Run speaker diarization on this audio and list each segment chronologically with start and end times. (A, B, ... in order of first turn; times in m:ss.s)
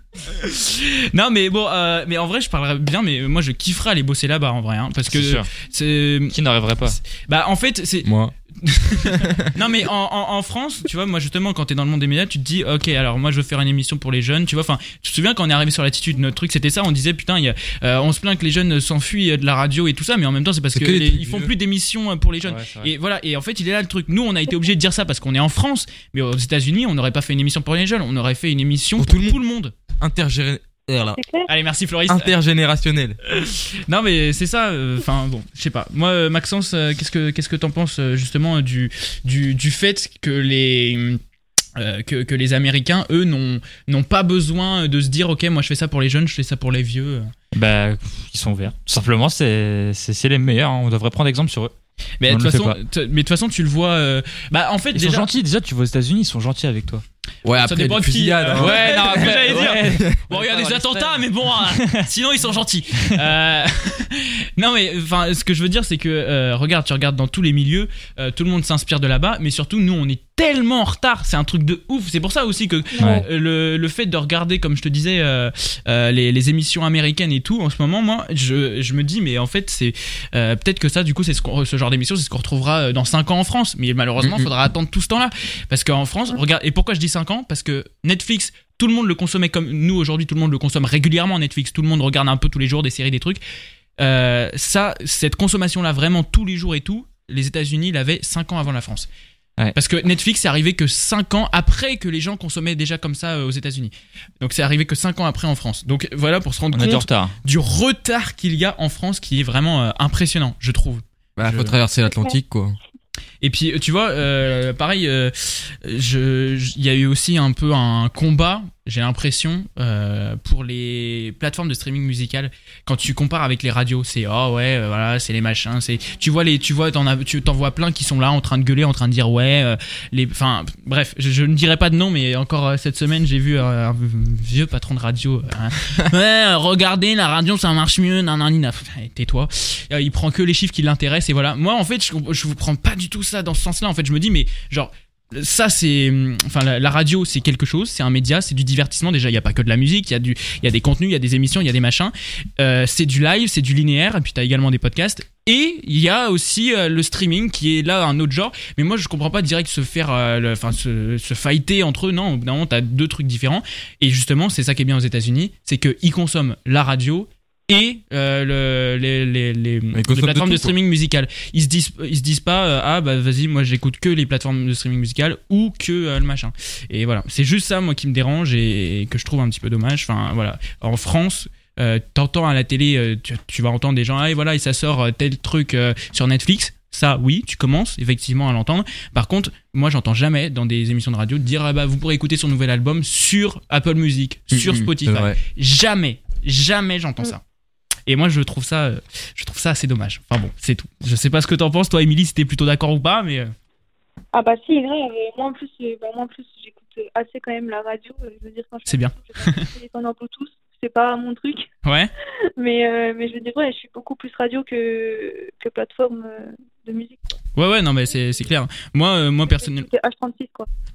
0:00.2-0:06.4 A
0:05.1-0:05.5 B
0:06.3-0:07.0 B
0:07.1-0:08.1 A
0:08.0-0:08.3 C
0:08.6-0:29.7 A
0:09.0-0:09.5 C
0:20.7-0:21.5 C
0:22.4-0:22.9 B
0:29.0-0:29.4 C
0:30.0-0:31.2 C
0:31.2-0:31.5 D
0:31.5-0:32.3 A
0:32.1-0:33.2 C
0:33.3-0:41.2 A
0:41.8-0:47.3 A
0:47.5-0:51.7 B
0:52.2-0:55.3 A
0:52.3-0:52.8 B
0:54.9-0:57.0 B
0:57.4-0:59.3 C
0:57.6-1:33.4 A
0:58.5-1:02.1 B
0:59.8-1:00.2 C
1:13.0-1:13.3 D
1:13.0-1:13.3 B
1:24.2-1:24.5 C
1:34.0-1:39.1 A
1:39.8-1:51.7 A
1:46.7-1:47.3 B
1:51.4-1:52.8 C
1:53.4-3:17.4 A
2:49.9-2:50.8 C
3:14.5-3:15.4 C
3:18.1-3:23.5 A
3:24.3-3:31.7 D
3:28.9-3:29.7 A
3:31.8-3:32.1 A
3:32.6-3:37.4 D
3:37.6-3:39.9 A
3:38.1-3:38.4 D
3:39.5-3:40.7 D